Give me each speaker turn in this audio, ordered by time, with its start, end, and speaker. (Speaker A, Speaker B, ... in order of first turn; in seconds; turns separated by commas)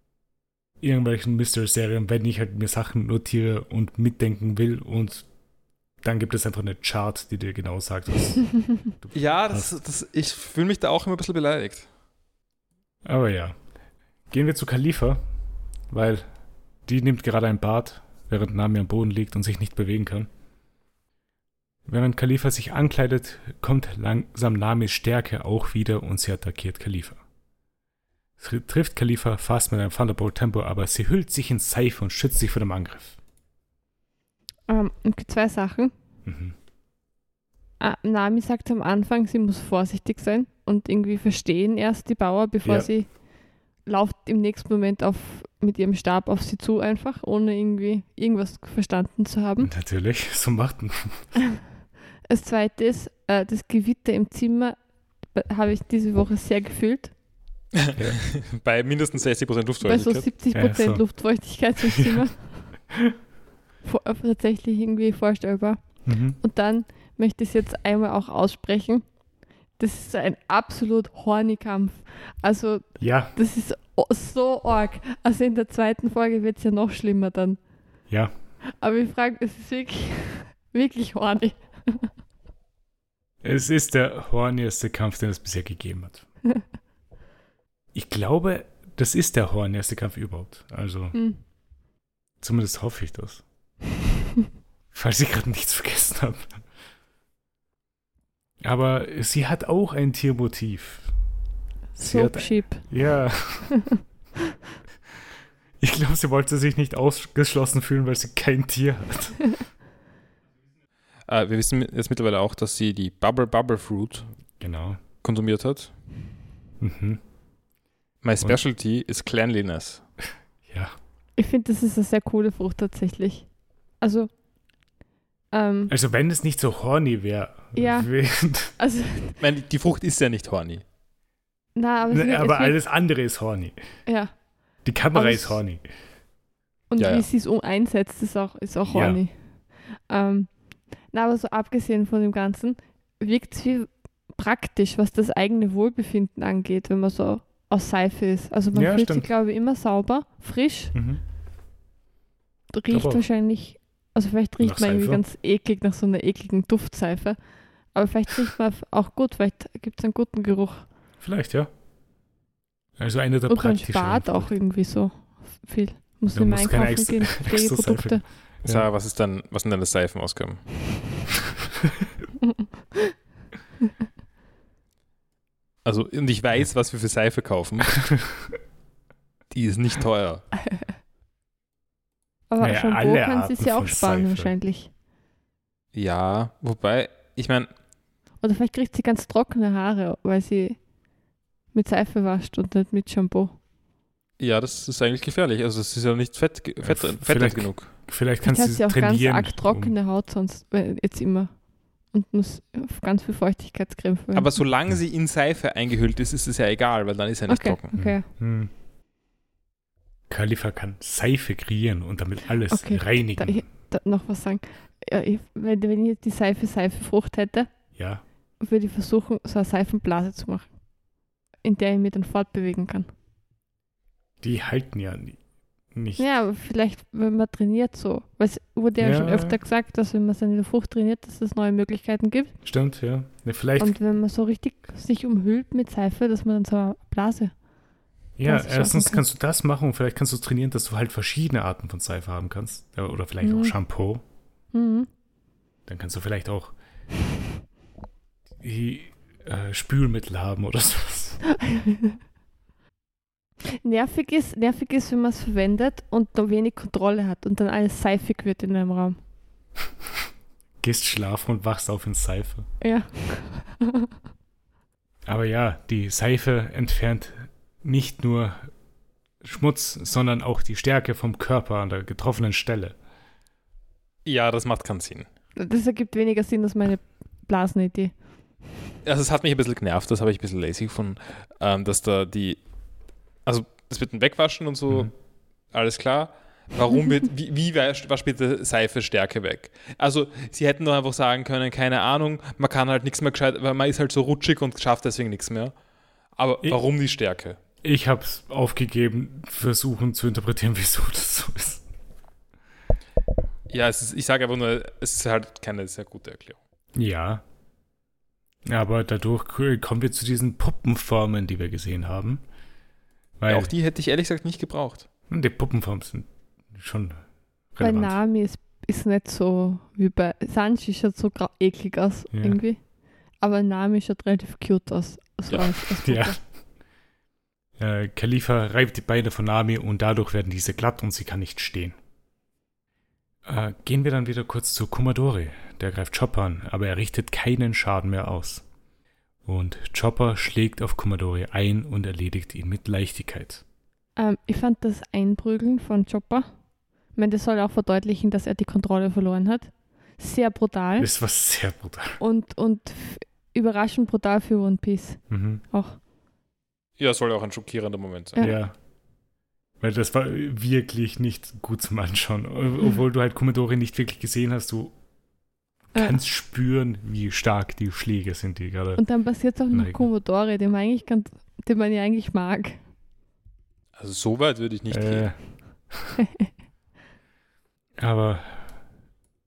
Speaker A: 0.8-5.3, Speaker A: 6.0-9.7, Speaker B: 9.1-11.9, Speaker A: 13.1-13.6, Speaker A: 14.3-15.2, Speaker A: 15.9-16.2, Speaker A: 16.9-20.3, Speaker A: 21.9-27.2, Speaker A: 28.4-33.2, Speaker C: 34.7-35.9, Speaker A: 36.2-36.6, Speaker C: 37.8-43.1, Speaker A: 42.6-42.9, Speaker C: 43.9-49.7, Speaker A: 49.6-51.3, Speaker C: 52.3-54.8, Speaker C: 55.3-57.1, Speaker B: 57.7-60.3, Speaker C: 59.8-62.7, Speaker A: 60.5-61.0, Speaker C: 63.8-69.0, Speaker A: 66.1-66.4, Speaker C: 69.8-77.6, Speaker A: 73.0-73.3, Speaker C: 78.8-82.1, Speaker A: 83.4-86.2, Speaker A: 87.9-91.2, Speaker C: 91.1-91.4, Speaker A: 92.4-93.4, Speaker A: 94.9-96.6, Speaker A: 98.6-101.1, Speaker C: 102.0-102.9, Speaker A: 102.0-103.8, Speaker A: 105.8-109.6, Speaker B: 111.3-114.3, Speaker A: 114.6-115.0, Speaker B: 115.2-115.9, Speaker A: 116.8-117.2, Speaker B: 118.2-120.0, Speaker A: 120.7-121.0, Speaker C: 121.4-123.5, Speaker C: 124.0-124.3, Speaker C: 125.5-125.9, Speaker A: 125.9-128.7, Speaker C: 127.8-128.1, Speaker C: 128.8-129.4, Speaker B: 129.4-130.8, Speaker C: 131.8-132.8, Speaker A: 132.1-133.8, Speaker C: 134.1-134.3, Speaker A: 134.8-135.8, Speaker C: 135.1-135.6, Speaker C: 136.9-140.5, Speaker B: 137.0-137.3, Speaker A: 138.9-139.2, Speaker C: 141.1-150.9, Speaker A: 148.7-149.3, Speaker A: 150.9-151.2, Speaker C: 152.7-157.4, Speaker A: 152.9-153.2, Speaker A: 154.6-155.2, Speaker C: 157.9-160.9, Speaker A: 161.2-161.7, Speaker A: 163.0-164.5, Speaker C: 163.5-168.2, Speaker A: 166.3-168.9, Speaker B: 168.7-170.7, Speaker C: 172.4-173.1, Speaker B: 175.8-178.1, Speaker A: 178.0-178.5, Speaker B: 179.5-180.4, Speaker C: 182.5-184.9, Speaker A: 182.6-184.5, Speaker B: 185.9-187.7, Speaker C: 188.4-190.8, Speaker C: 191.7-193.6, Speaker B: 194.4-197.9, Speaker A: 196.8-199.9, Speaker C: 198.4-201.6, Speaker C: 202.1-204.5, Speaker B: 204.3-207.9, Speaker C: 207.5-208.3, Speaker A: 207.9-208.7, Speaker A: 210.3-213.7, Speaker C: 212.7-217.7, Speaker A: 218.0-218.2, Speaker C: 218.6-220.7, Speaker C: 221.6-223.1, Speaker A: 224.4-225.4, Speaker A: 225.9-226.2, Speaker C: 226.2-232.6, Speaker A: 229.0-229.6, Speaker A: 232.7-233.9, Speaker C: 233.8-237.5, Speaker A: 238.4-244.2, Speaker C: 238.5-239.2, Speaker C: 243.4-243.8, Speaker C: 244.7-245.1, Speaker A: 245.9-246.8, Speaker A: 248.6-251.4, Speaker C: 251.6-252.2, Speaker C: 253.7-259.2, Speaker A: 260.8-262.7, Speaker C: 262.8-264.1, Speaker A: 265.3-268.7, Speaker A: 269.4-273.0, Speaker B: 274.2-275.3, Speaker C: 275.6-278.1, Speaker B: 279.1-282.6, Speaker B: 283.4-285.1, Speaker B: 285.7-295.7, Speaker B: 296.4-297.6, Speaker A: 297.8-301.9, Speaker B: 303.7-306.6, Speaker A: 306.9-307.4, Speaker A: 308.7-312.4, Speaker A: 313.4-313.7, Speaker B: 313.5-315.1, Speaker A: 315.3-317.2, Speaker A: 317.7-318.2, Speaker C: 317.8-322.8, Speaker A: 322.3-322.6, Speaker C: 323.4-326.4, Speaker A: 326.0-326.4, Speaker A: 327.8-332.0, Speaker A: 333.4-338.6, Speaker A: 339.4-343.6, Speaker C: 344.2-346.5, Speaker C: 347.1-351.1, Speaker A: 351.0-352.2, Speaker C: 352.2-356.0, Speaker A: 355.3-355.6, Speaker B: 357.0-358.5, Speaker A: 358.4-358.7, Speaker A: 359.8-364.9, Speaker A: 365.9-369.0, Speaker C: 369.0-372.8, Speaker A: 369.7-370.0, Speaker B: 374.0-375.3, Speaker A: 374.9-375.4, Speaker A: 375.9-376.2, Speaker C: 376.2-376.5, Speaker A: 378.0-378.8